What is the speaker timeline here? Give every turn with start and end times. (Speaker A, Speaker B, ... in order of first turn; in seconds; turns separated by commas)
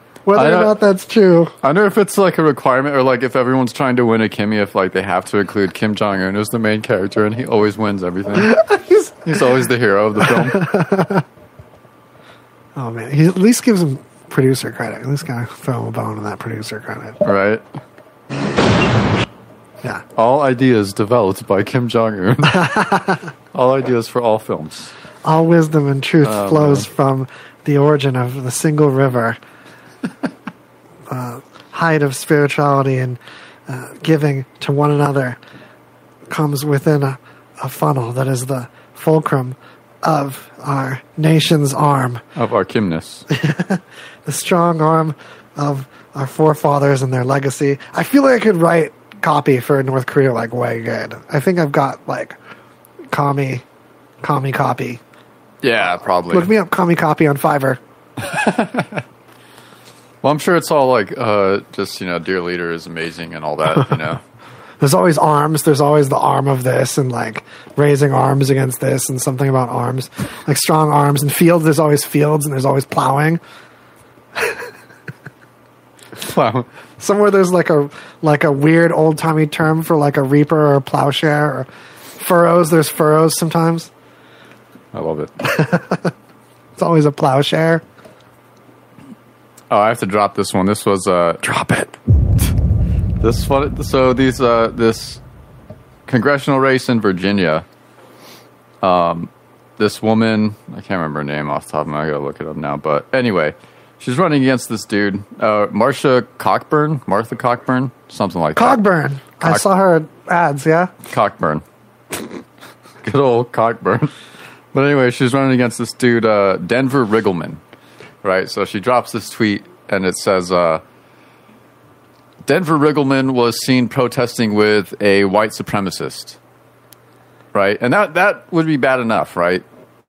Speaker A: 0.2-1.5, Speaker B: 0.3-0.8, Speaker B: 1.6-8.6, Speaker A: 8.3-9.4, Speaker B: 9.2-10.7, Speaker A: 10.2-11.2, Speaker A: 12.8-17.2, Speaker B: 17.2-17.6, Speaker B: 20.1-22.7, Speaker A: 22.5-23.3, Speaker B: 23.5-24.9, Speaker A: 25.2-29.4, Speaker B: 26.2-26.9, Speaker A: 31.1-35.4, Speaker A: 36.3-42.2, Speaker B: 42.4-43.2, Speaker A: 43.3-52.4, Speaker A: 53.1-53.6, Speaker A: 54.2-55.0, Speaker B: 55.6-56.5, Speaker A: 56.3-57.8, Speaker B: 58.2-59.0, Speaker B: 60.2-64.2, Speaker A: 64.8-73.4, Speaker A: 74.3-74.7, Speaker B: 76.2-76.7, Speaker A: 77.0-83.9, Speaker B: 84.9-85.3, Speaker A: 85.4-86.1, Speaker A: 86.8-87.8, Speaker B: 89.7-91.4, Speaker A: 91.4-91.9, Speaker B: 93.2-95.2, Speaker B: 96.1-97.6, Speaker B: 98.8-108.8, Speaker A: 108.5-110.9, Speaker B: 111.1-111.6, Speaker B: 113.0-114.1, Speaker B: 114.7-117.6, Speaker B: 118.2-120.8, Speaker B: 122.4-126.4, Speaker B: 127.5-129.6